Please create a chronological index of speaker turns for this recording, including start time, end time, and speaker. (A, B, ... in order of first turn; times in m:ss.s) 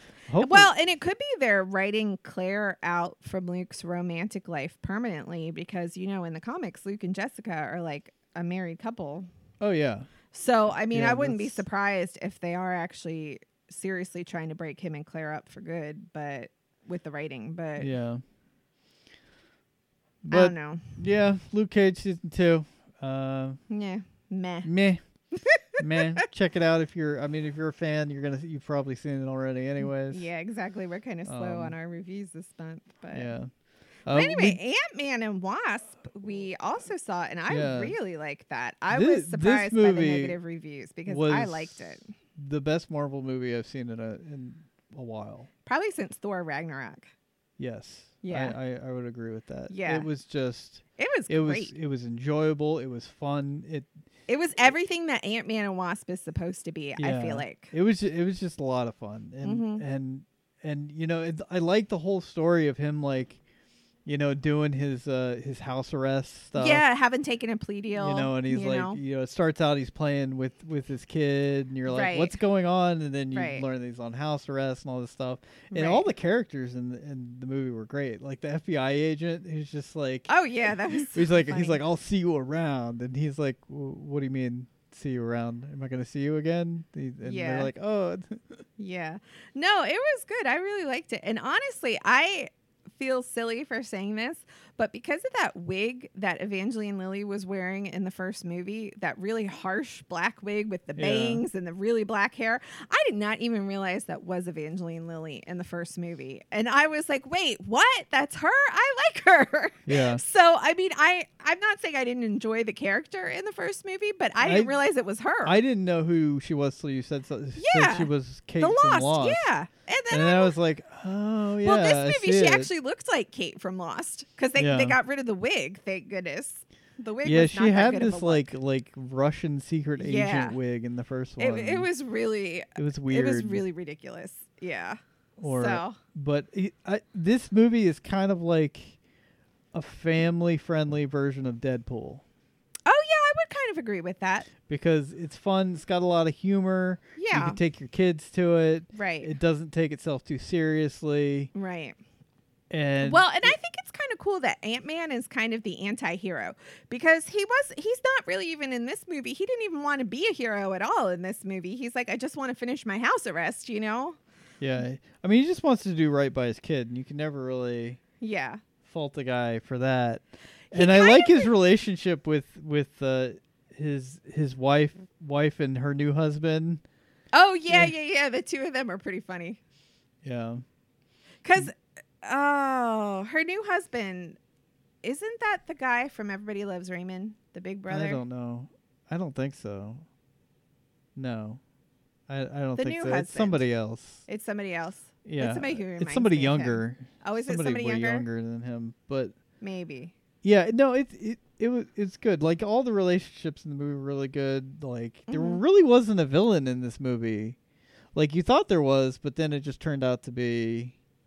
0:00.3-0:00.7 A
0:00.4-0:09.3 B
0:09.6-0:10.1 A
0:10.3-0:17.9 B
0:10.9-0:11.6 A
0:17.8-0:18.2 A
0:20.2-0:23.6 A
0:20.3-0:21.0 B
0:23.7-0:24.7 B
0:24.6-0:25.0 A
0:25.3-0:26.3 B
0:25.8-0:30.3 A
0:30.1-0:33.3 B
0:31.3-0:31.8 A
0:33.1-0:33.5 A
0:34.1-0:34.6 A
0:34.1-0:42.1 B
0:37.5-0:38.0 A
0:38.9-0:40.4 A
0:41.1-0:45.5 A
0:45.6-0:47.1 B
0:47.6-0:53.9 A
0:48.2-0:48.6 B
0:49.7-0:50.1 B
0:51.0-0:51.7 B
0:54.3-0:57.7 B
0:57.0-1:03.4 A
0:59.4-0:59.8 B
1:04.1-1:06.8 A
1:06.6-1:09.0 B
1:08.0-1:28.6 A
1:11.9-1:12.4 B
1:13.3-1:13.6 B
1:15.7-1:16.1 B
1:20.3-1:21.8 B
1:27.2-1:27.7 B
1:28.8-1:55.6 B
1:41.0-1:41.4 A
1:49.9-1:50.2 A
1:54.4-1:54.7 A
1:55.4-1:59.5 A
1:57.6-2:00.6 B
2:00.1-2:02.7 A
2:01.6-2:08.5 B
2:04.6-2:05.0 A
2:07.2-2:11.9 A
2:10.0-2:10.6 B
2:11.4-2:16.0 B
2:12.8-2:13.6 A
2:15.4-2:19.0 A
2:19.7-2:22.2 A
2:22.9-2:24.5 B
2:24.7-2:31.5 A
2:27.2-2:27.6 B
2:28.9-2:29.3 B
2:31.5-2:32.0 B
2:32.7-2:33.5 A
2:33.0-2:44.2 B
2:44.6-2:48.0 A
2:48.2-2:48.6 B
2:48.8-2:56.8 A
2:50.7-2:51.5 B
2:57.3-2:59.6 B
3:00.2-3:00.6 A
3:01.4-3:04.4 B
3:05.0-3:08.2 B
3:07.9-3:10.0 A
3:11.2-3:11.6 A
3:12.3-3:14.2 A
3:12.8-3:13.6 B
3:14.3-3:18.3 B
3:15.2-3:19.4 A
3:19.6-3:20.2 B
3:20.4-3:27.6 A
3:25.3-3:25.6 B
3:28.2-3:31.0 A